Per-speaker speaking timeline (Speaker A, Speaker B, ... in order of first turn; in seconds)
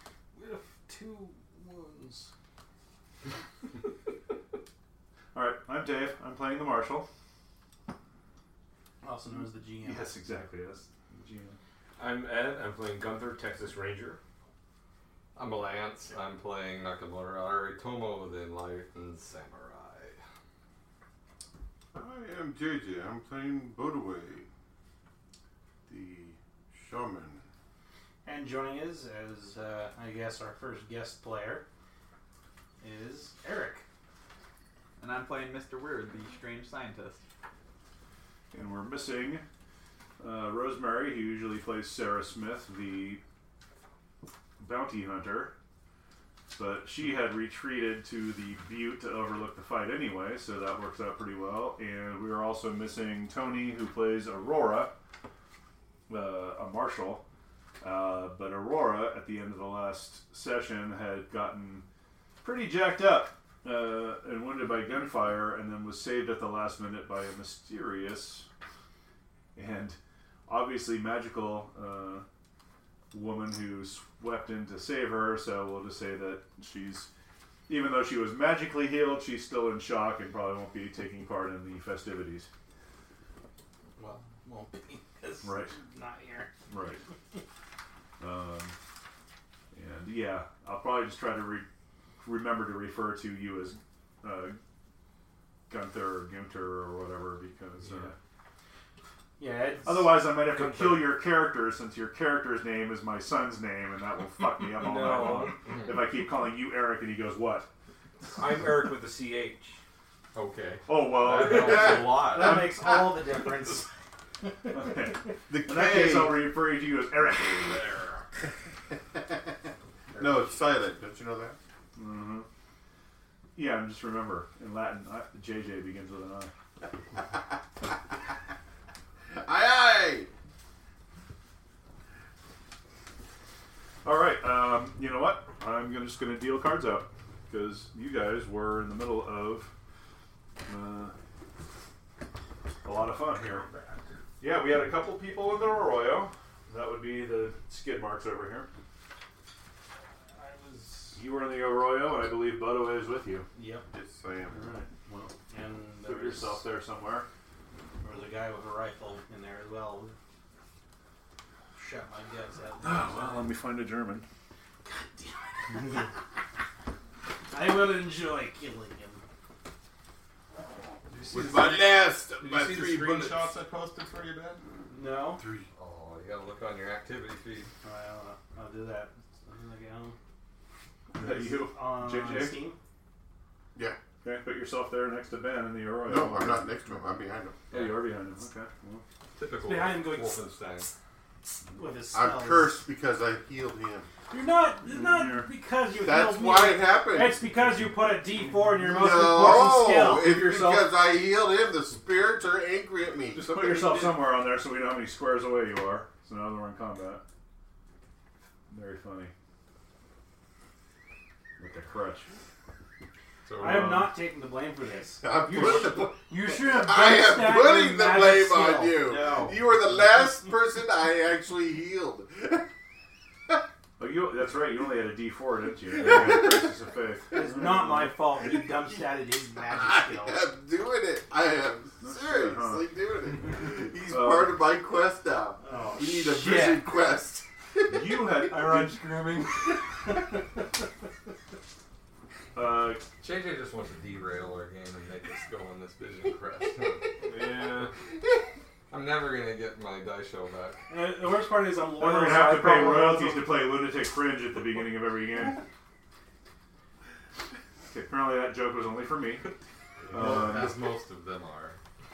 Speaker A: 0.3-2.3, 9.0-10.2, 28.2-31.7, 32.8-33.9, 84.0-86.5, 97.9-98.1, 99.4-100.5, 111.4-113.9, 114.4-115.1, 120.1-120.6, 150.2-151.2, 153.6-153.9, 155.5-156.6, 158.0-160.2, 161.7-163.6, 164.8-166.2, 167.5-169.2, 174.9-175.4, 177.8-180.2, 181.2-182.8, 189.6-190.4, 191.6-192.8, 194.3-200.9, 213.6-219.6, 227.3-230.4, 235.6-237.0, 238.5-240.4, 250.9-253.5
Speaker B: 5.3-7.1, 9.8-11.6, 38.5-39.4, 40.2-43.2, 44.6-45.5, 46.5-55.0, 56.1-57.2, 57.8-61.8, 62.4-68.5, 69.5-72.2, 73.1-77.1, 77.7-82.5, 85.4-85.7, 86.7-87.0, 88.2-88.8, 89.7-91.7, 92.2-94.6, 95.7-98.1, 99.9-107.7, 110.9-112.5, 114.7-118.1, 122.0-122.5, 123.6-126.5, 134.0-139.7, 140.7-141.1, 142.8-143.7, 144.4-148.7, 151.2-153.5, 154.5-155.3, 156.0-157.3, 162.8-164.2, 181.1-182.7, 184.2-186.7, 187.7-189.0, 195.0-195.4, 203.3-207.2, 208.7-209.3, 211.6-212.3, 213.6-214.1, 215.5-215.9, 224.0-228.1, 232.0-232.8, 234.1-234.6, 237.9-239.1, 242.6-243.0, 252.0-255.6, 257.9-259.4, 260.1-260.7
Speaker C: 12.0-14.2, 100.5-101.0, 104.8-105.6, 108.4-109.8, 247.2-247.9
Speaker D: 15.3-20.2, 105.6-106.0, 110.3-112.7, 171.1-174.6, 175.7-177.7, 187.7-188.1, 189.4-190.9, 213.5-214.0, 243.2-248.0, 248.9-250.9, 260.1-261.8
Speaker E: 21.9-24.5, 25.9-27.4, 115.5-116.5, 120.2-121.6, 129.3-130.3, 153.9-154.6, 171.3-173.6, 175.4-175.7, 186.0-187.6, 192.1-194.1, 196.0-197.4, 198.9-203.6, 215.2-222.7, 226.0-226.5, 229.7-238.3
Speaker F: 35.0-37.2